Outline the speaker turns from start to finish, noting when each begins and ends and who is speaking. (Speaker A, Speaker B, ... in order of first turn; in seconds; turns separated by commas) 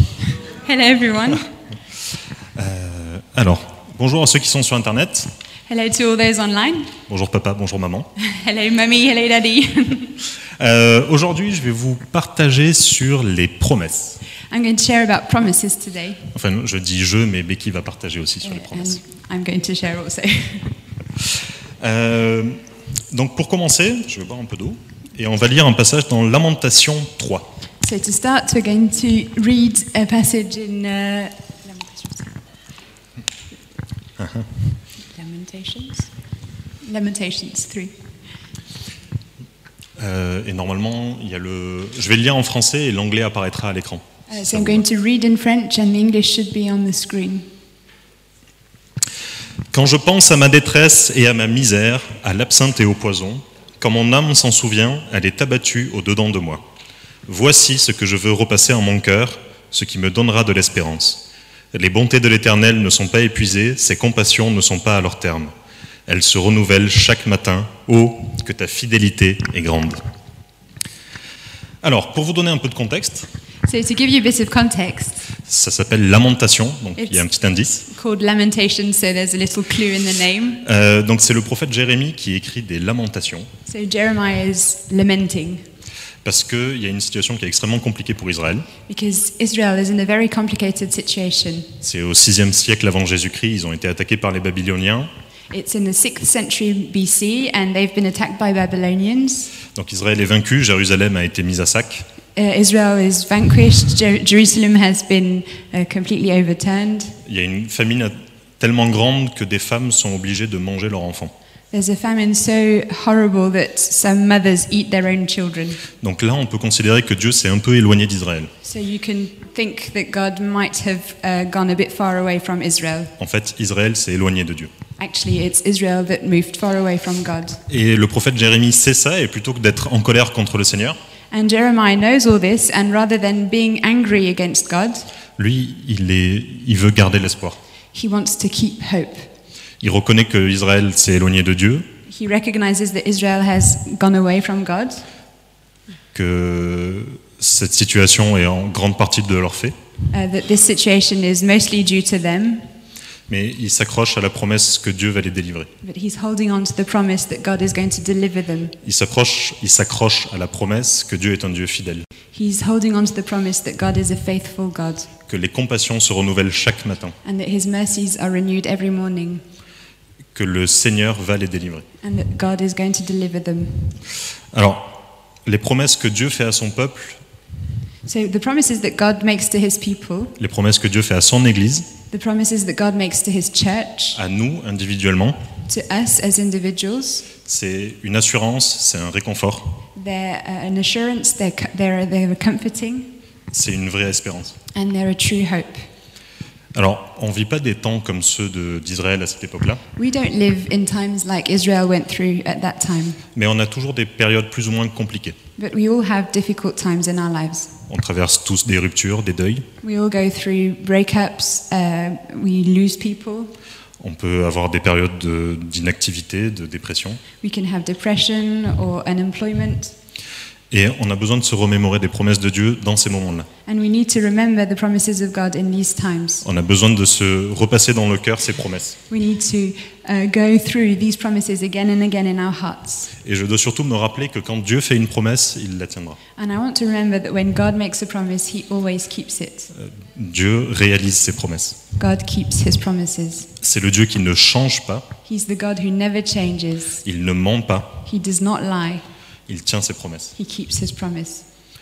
Speaker A: 0.5-1.5, Speaker B: 2.5-5.3, Speaker A: 5.7-6.9, Speaker B: 7.1-8.1, Speaker A: 8.2-10.2, Speaker B: 10.6-14.2, Speaker A: 14.5-16.3, Speaker B: 16.3-19.0, Speaker A: 18.4-20.7, Speaker B: 21.8-27.5, Speaker A: 27.8-32.4, Speaker B: 34.2-34.5, Speaker A: 35.0-36.1, Speaker A: 36.8-37.9, Speaker B: 40.0-44.8, Speaker A: 44.3-47.4, Speaker B: 49.7-56.6, Speaker B: 57.3-65.5, Speaker B: 66.1-70.0, Speaker B: 71.8-73.3, Speaker A: 73.7-75.3, Speaker B: 75.3-77.8, Speaker A: 77.8-80.6, Speaker B: 80.6-83.5, Speaker A: 83.7-85.6, Speaker B: 86.2-88.7, Speaker A: 88.9-91.7, Speaker B: 91.8-95.1, Speaker A: 95.5-99.5, Speaker B: 99.7-102.1, Speaker A: 102.3-107.2, Speaker B: 107.2-111.3, Speaker A: 111.7-115.8, Speaker B: 116.0-118.5, Speaker A: 118.6-123.1, Speaker B: 123.2-124.7, Speaker A: 125.0-127.6, Speaker B: 127.7-131.0, Speaker A: 131.3-135.1, Speaker B: 135.4-137.6, Speaker A: 137.9-139.2, Speaker B: 139.8-141.9, Speaker A: 142.1-145.0, Speaker B: 146.1-149.7, Speaker A: 150.1-152.6, Speaker B: 153.3-155.7, Speaker A: 155.8-158.8, Speaker B: 158.8-162.1, Speaker A: 162.3-165.1, Speaker B: 165.3-167.2, Speaker A: 167.2-169.4, Speaker B: 170.3-171.9, Speaker A: 172.0-174.0, Speaker B: 174.5-177.2, Speaker A: 178.0-180.3, Speaker B: 180.4-181.9, Speaker A: 182.1-184.2, Speaker B: 184.1-185.4, Speaker A: 185.7-187.3, Speaker B: 187.4-189.8, Speaker A: 189.9-193.1, Speaker B: 193.5-194.6, Speaker A: 194.7-195.9, Speaker B: 196.7-199.8, Speaker A: 199.9-203.2, Speaker B: 203.3-205.4, Speaker A: 205.6-207.7, Speaker B: 207.9-209.7, Speaker A: 209.8-213.5, Speaker B: 214.0-217.2, Speaker A: 217.4-219.9, Speaker B: 220.7-223.5, Speaker A: 223.7-226.4, Speaker B: 226.4-229.0, Speaker A: 229.1-233.1, Speaker B: 233.2-236.2, Speaker A: 236.3-239.7, Speaker B: 239.7-241.8, Speaker A: 242.0-243.5, Speaker B: 243.6-245.1, Speaker A: 245.2-247.0, Speaker B: 247.0-248.0, Speaker A: 248.0-249.1, Speaker B: 249.5-250.3, Speaker A: 250.3-251.4